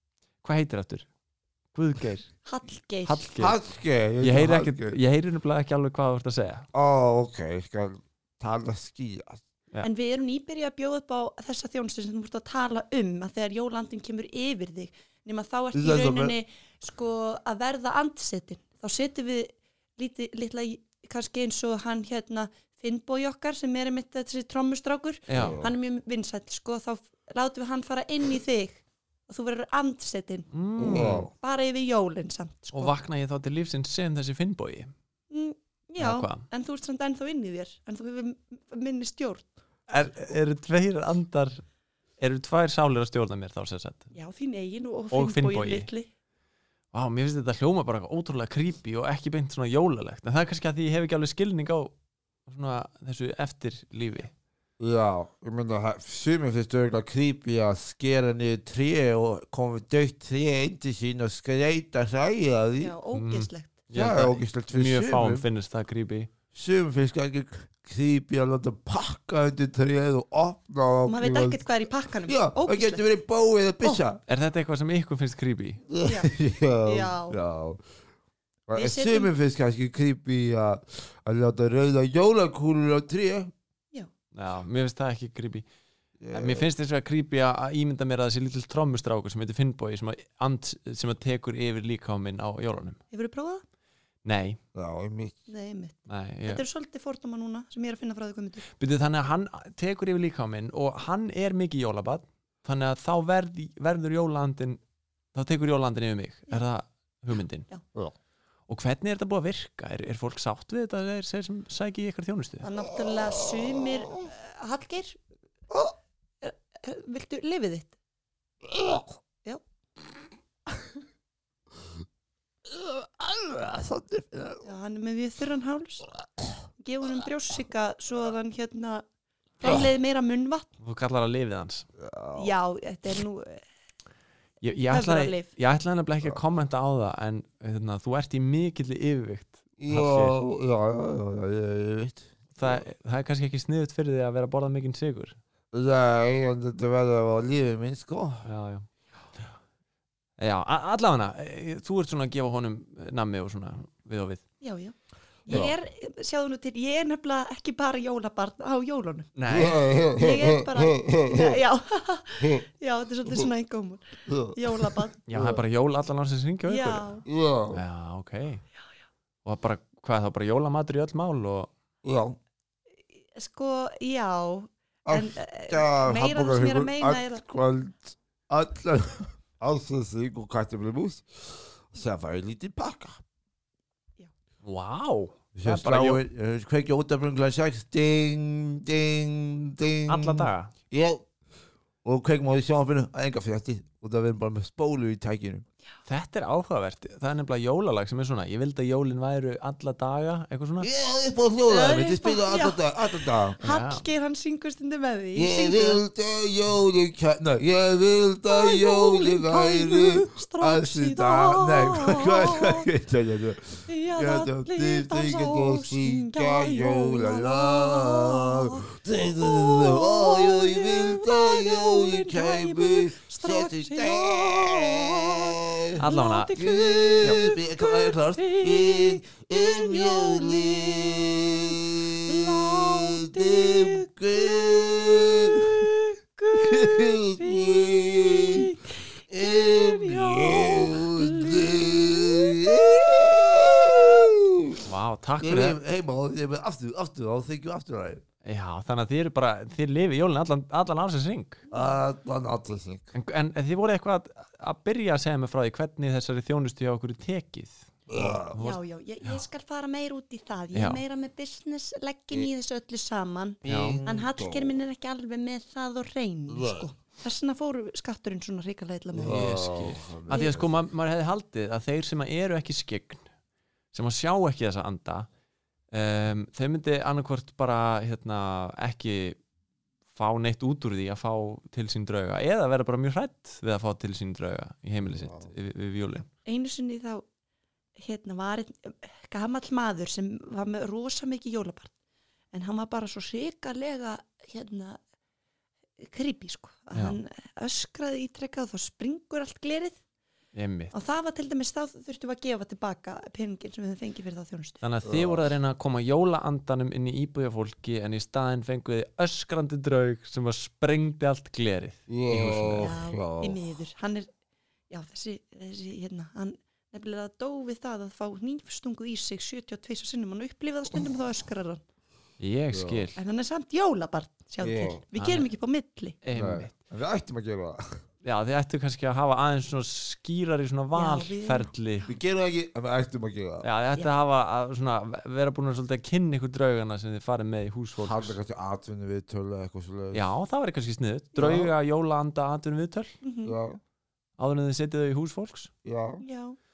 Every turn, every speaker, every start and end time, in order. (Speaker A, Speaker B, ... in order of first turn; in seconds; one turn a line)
Speaker A: 0.4-1.1
Speaker A: 1.7-2.3
Speaker B: 2.5-3.3
Speaker A: 3.0-3.6
Speaker C: 3.4-5.0
Speaker A: 4.2-6.7
Speaker C: 6.7-9.4
Speaker B: 9.8-33.0
Speaker C: 15.7-16.4
Speaker A: 25.3-25.6
Speaker C: 25.3-25.7
Speaker A: 30.5-31.3
Speaker C: 30.8-31.3
Speaker A: 32.7-34.9
Speaker B: 35.3-39.5
Speaker A: 36.0-36.5
Speaker A: 39.9-41.6
Speaker A: 42.2-44.1
Speaker B: 44.1-46.1
Speaker A: 45.1-45.9
Speaker A: 46.9-51.9
Speaker A: 52.5-54.3
Speaker C: 54.8-63.0
Speaker B: 62.8-63.8
Speaker A: 63.1-66.3
Speaker C: 63.9-65.5
Speaker C: 66.5-71.6
Speaker B: 71.1-73.1
Speaker C: 72.3-74.2
Speaker A: 74.3-75.8
Speaker C: 75.9-77.8
Speaker B: 76.0-76.3
Speaker B: 76.8-77.4
Speaker C: 78.7-83.5
Speaker B: 78.7-79.3
Speaker A: 84.3-85.7
Speaker C: 86.2-86.7
Speaker A: 86.3-93.0
Speaker B: 93.1-93.6
Speaker A: 94.2-94.6
Speaker C: 94.8-95.4
Speaker B: 95.5-98.7
Speaker A: 96.1-96.7
Speaker A: 98.8-104.8
Speaker A: 105.3-107.7
Speaker A: 108.7-112.7
Speaker B: 112.6-115.2
Speaker B: 116.4-117.9
Speaker C: 118.7-119.0
Speaker C: 122.7-124.7
Speaker B: 124.6-126.1
Speaker B: 126.8-129.0
Speaker B: 129.6-130.7
Speaker A: 130.8-131.9
Speaker C: 132.0-132.5
Speaker B: 132.3-133.7
Speaker A: 134.6-140.4
Speaker B: 134.9-135.5
Speaker C: 139.8-142.8
Speaker A: 142.6-145.4
Speaker C: 145.7-148.4
Speaker A: 148.4-148.9
Speaker A: 150.4-154.4
Speaker B: 154.6-159.3
Speaker C: 155.5-155.8
Speaker A: 159.4-159.9
Speaker C: 159.5-161.6
Speaker B: 160.1-165.2
Speaker C: 164.3-165.6
Speaker A: 165.3-168.6
Speaker B: 166.7-167.2
Speaker C: 167.3-167.8
Speaker A: 169.4-171.7
Speaker C: 172.0-172.4
Speaker B: 173.2-177.4
Speaker C: 175.1-183.2
Speaker A: 184.6-186.2
Speaker C: 185.6-191.2
Speaker A: 190.1-190.7
Speaker C: 192.0-195.7
Speaker A: 196.1-200.9
Speaker C: 200.8-203.6
Speaker B: 201.7-206.0
Speaker A: 203.6-204.1
Speaker C: 205.3-225.9
Speaker B: 208.5-212.9
Speaker B: 213.9-244.0
Speaker A: 226.0-226.6
Speaker C: 226.5-235.6
Speaker C: 236.6-238.6
Speaker C: 239.3-244.8
Speaker A: 244.8-245.8
Speaker C: 245.4-248.2
Speaker A: 248.4-251.6
Speaker B: 251.7-252.0
Speaker C: 251.7-253.1
Speaker A: 253.1-259.4
Speaker C: 258.1-258.6
Speaker B: 258.6-269.6
Speaker A: 260.7-261.0
Speaker C: 263.6-264.8
Speaker A: 263.6-264.0
Speaker C: 266.5-266.9
Speaker C: 269.2-270.8
Speaker A: 269.2-273.2
Speaker B: 270.3-270.6
Speaker A: 273.9-275.3
Speaker A: 275.9-279.4
Speaker A: 280.1-286.3
Speaker C: 285.1-285.5
Speaker B: 286.1-287.2
Speaker B: 288.0-291.9
Speaker B: 292.5-295.0
Speaker B: 296.0-300.0
Speaker A: 296.9-297.2
Speaker A: 300.5-300.9
Speaker B: 300.9-304.8
Speaker A: 304.8-312.9
Speaker C: 305.0-305.5
Speaker C: 312.1-313.8
Speaker B: 312.8-314.3
Speaker B: 314.9-321.8
Speaker A: 322.4-323.2
Speaker C: 322.7-323.1
Speaker B: 323.2-326.2
Speaker C: 324.6-325.0
Speaker A: 325.1-325.5
Speaker A: 326.2-326.8
Speaker C: 326.3-328.0
Speaker A: 328.2-332.1
Speaker B: 330.9-331.7
Speaker C: 332.1-333.7
Speaker A: 333.6-338.4
Speaker C: 338.0-340.3
Speaker A: 340.1-343.1
Speaker C: 341.4-341.7
Speaker B: 343.2-343.6
Speaker C: 343.4-343.8
Speaker A: 344.4-345.7
Speaker C: 345.9-346.2
Speaker B: 346.2-346.6